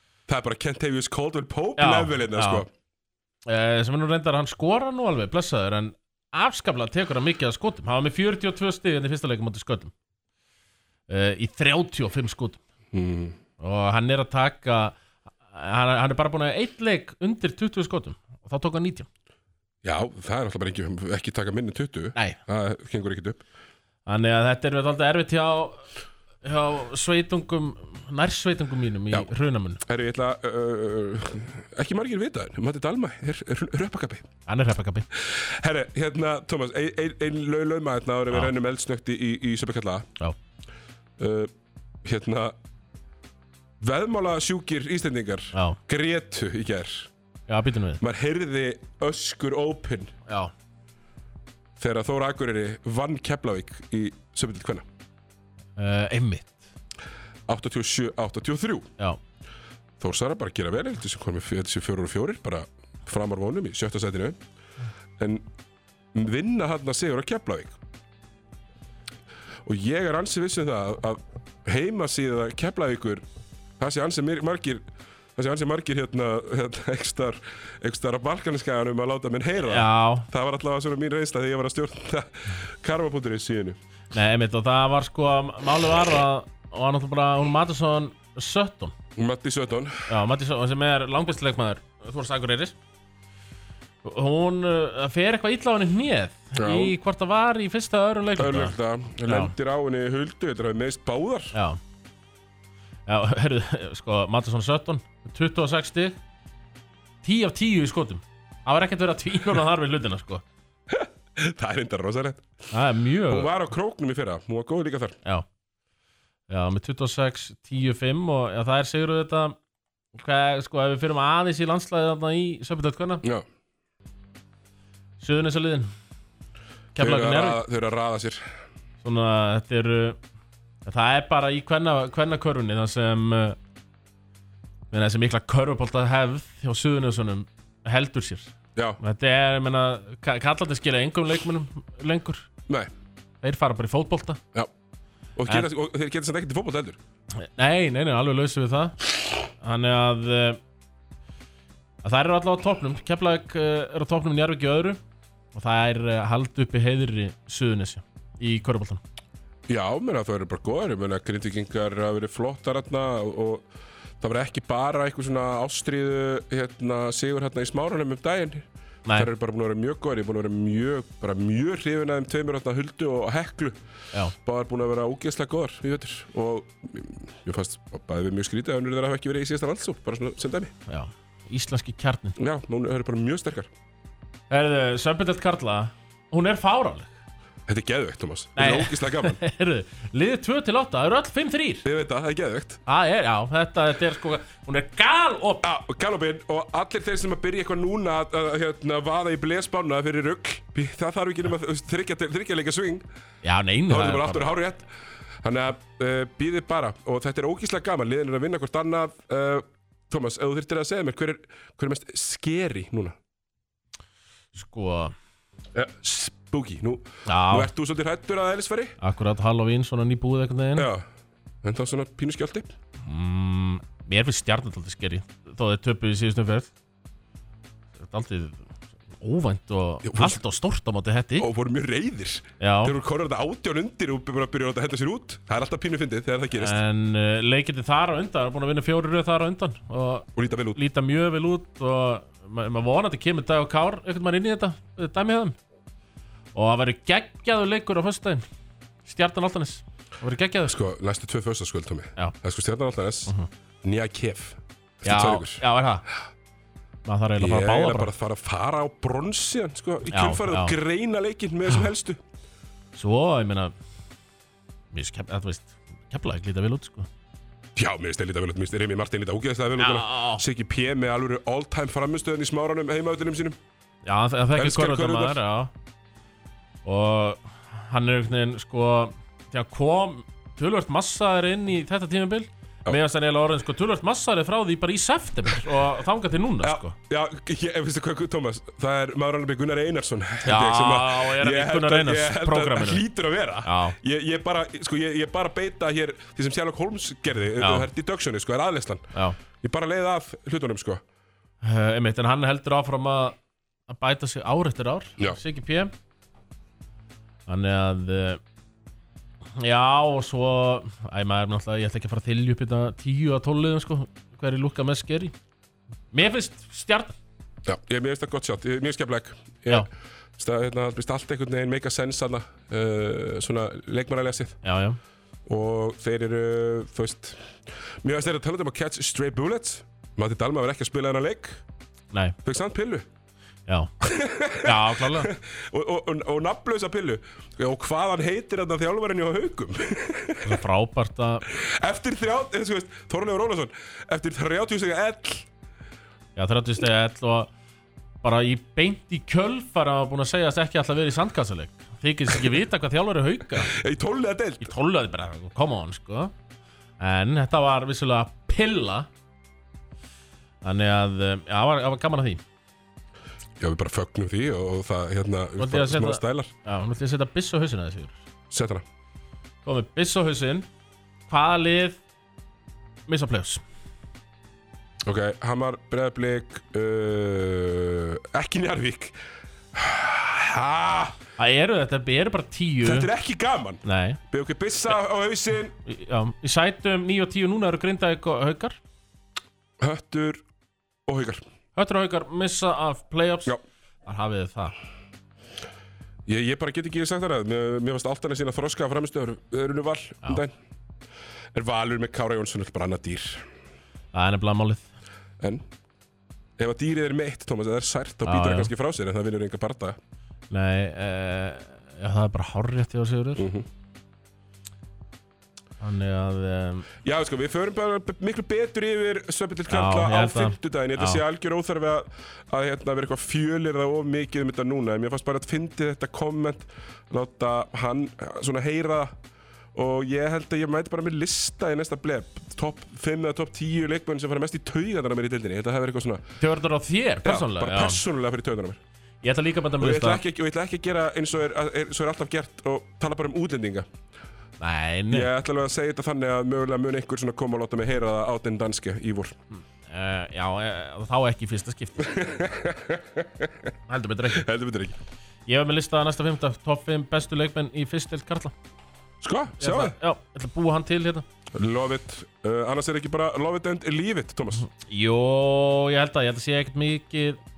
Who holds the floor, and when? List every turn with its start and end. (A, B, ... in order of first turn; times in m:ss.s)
0:00.3-0:02.7 A
0:01.8-0:02.6 B
0:03.4-0:09.9 B
0:11.1-0:12.6 B
0:12.9-0:13.4 A
0:13.6-0:15.0 B
0:15.5-0:19.1 B
0:19.8-0:23.4 A
0:24.0-0:25.8 B
0:26.4-0:29.8 B
0:29.8-0:34.3 A
0:34.5-0:35.1 B
0:35.1-0:40.1 A
0:41.2-0:41.5 A
0:42.0-0:42.6 A
0:43.8-0:47.1 A
0:47.5-0:48.0 B
0:48.0-0:50.1 A
0:50.3-0:50.5 B
0:51.8-0:54.8 A
0:55.8-0:56.6 B
0:57.5-0:58.9 A
1:00.0-1:04.4 A
1:05.2-1:05.5 A
1:06.1-1:07.8 A
1:09.6-1:13.2 A
1:13.8-1:14.8 A
1:15.4-1:23.8 A
1:19.6-1:20.3 B
1:24.1-1:28.9 B
1:29.1-1:30.1 A
1:30.1-1:32.8 B
1:34.0-1:39.5 B
1:36.6-1:37.0 A
1:38.4-1:41.5 A
1:41.5-1:41.8 B
1:43.1-1:46.2 B
1:47.2-1:50.4 B
1:50.9-1:52.6 A
1:52.7-1:53.5 B
1:53.3-1:55.2 A
1:56.5-1:59.6 B
2:00.1-2:03.2 B
2:05.2-2:05.9 B
2:06.9-2:08.4 A
2:07.0-2:07.6 B
2:09.0-2:10.2 B
2:10.8-2:13.6 B
2:14.9-2:22.5 B
2:23.4-2:24.4 B
2:25.4-2:27.0 A
2:27.4-2:29.0 B
2:29.6-2:30.6 B
2:32.0-2:35.0 B
2:35.5-2:39.0 B
2:39.7-2:43.6 A
2:44.2-2:53.8 A
2:49.0-2:49.3 B
2:54.3-3:00.7 A
3:00.9-3:02.4 B
3:02.4-3:03.7 A
3:04.5-3:07.1 B
3:07.7-3:09.4 A
3:08.6-3:11.8 B
3:11.8-3:12.8 A
3:12.8-3:15.6 B
3:15.6-3:23.0 A
3:23.4-3:24.4 B
3:23.9-3:24.9 A
3:25.4-3:33.2 A
3:34.5-3:35.1 B
3:35.7-3:39.0 A
3:37.2-3:37.7 B
3:39.0-3:40.9 B
3:40.8-3:41.0 A
3:41.6-3:42.7 A
3:43.0-3:46.7 B
3:48.0-3:51.5 B
3:50.0-3:50.4 A
3:51.4-3:56.8 A
3:52.6-3:53.0 B
3:56.6-4:05.6 B
4:00.4-4:00.8 A
4:06.5-4:08.4 B
4:09.0-4:10.7 B
4:10.7-4:13.3 A
4:13.8-4:15.6 A
4:15.0-4:16.1 B
4:17.0-4:18.1 B
4:17.4-4:22.2 A
4:20.1-4:20.8 B
4:22.9-4:23.7 B
4:24.9-4:27.1 B
4:27.8-4:33.6 A
4:29.8-4:30.4 B
4:34.0-4:35.7 B
4:34.5-4:35.4 A
4:36.8-4:47.0 B
4:46.6-5:01.0 A
4:50.4-4:53.0 B
4:53.6-4:54.0 B
4:57.6-4:57.9 B
5:01.6-5:03.4 B
5:03.9-5:05.9 B
5:07.5-5:08.4 B
5:09.6-5:15.3 B
5:16.1-5:17.2 B
5:17.6-5:24.6 A
5:24.6-5:25.0 B
5:25.4-5:31.6 A
5:32.1-5:32.4 B
5:32.4-5:33.1 A
5:34.0-5:40.6 A
5:34.6-5:35.3 B
5:40.4-5:41.4 B
5:41.5-5:45.5 A
5:46.4-5:47.5 B
5:48.2-5:53.7 B
5:53.6-5:54.7 A
5:54.6-5:56.3 B
5:57.0-5:59.1 B
6:00.6-6:02.4 B
6:03.6-6:06.5 A
6:05.6-6:08.2 B
6:08.5-6:08.8 A
6:09.6-6:10.7 B
6:11.3-6:12.0 B
6:13.1-6:13.6 B
6:15.0-6:19.2 A
6:19.7-6:21.2 A
6:21.4-6:23.1 B
6:22.8-6:25.7 A
6:23.8-6:24.2 B
6:25.8-6:28.8 B
6:29.8-6:30.4 A
6:31.0-6:31.4 A
6:31.8-6:33.5 B
6:34.0-6:34.7 B
6:36.2-6:40.5 A
6:41.5-6:43.5 A
6:44.1-6:44.9 B
6:45.4-6:45.6 A
6:46.6-6:50.0 A
6:48.2-6:48.7 B
6:50.5-6:53.5 B
6:53.4-6:53.7 A
6:55.8-6:56.9 B
6:57.0-7:09.1 A
6:59.7-7:01.2 B
7:09.7-7:16.2 A
7:16.4-7:18.0 B
7:17.2-7:18.8 A
7:19.2-7:20.2 B
7:19.8-7:23.9 A
7:24.6-7:25.3 B
7:25.1-7:29.3 A
7:29.5-7:32.2 B
7:32.0-7:33.5 A
7:33.9-7:34.5 B
7:34.3-7:35.0 A
7:35.5-7:38.5 B
7:39.2-7:39.9 A
7:39.6-7:41.2 B
7:41.5-7:44.6 A
7:44.7-7:47.4 B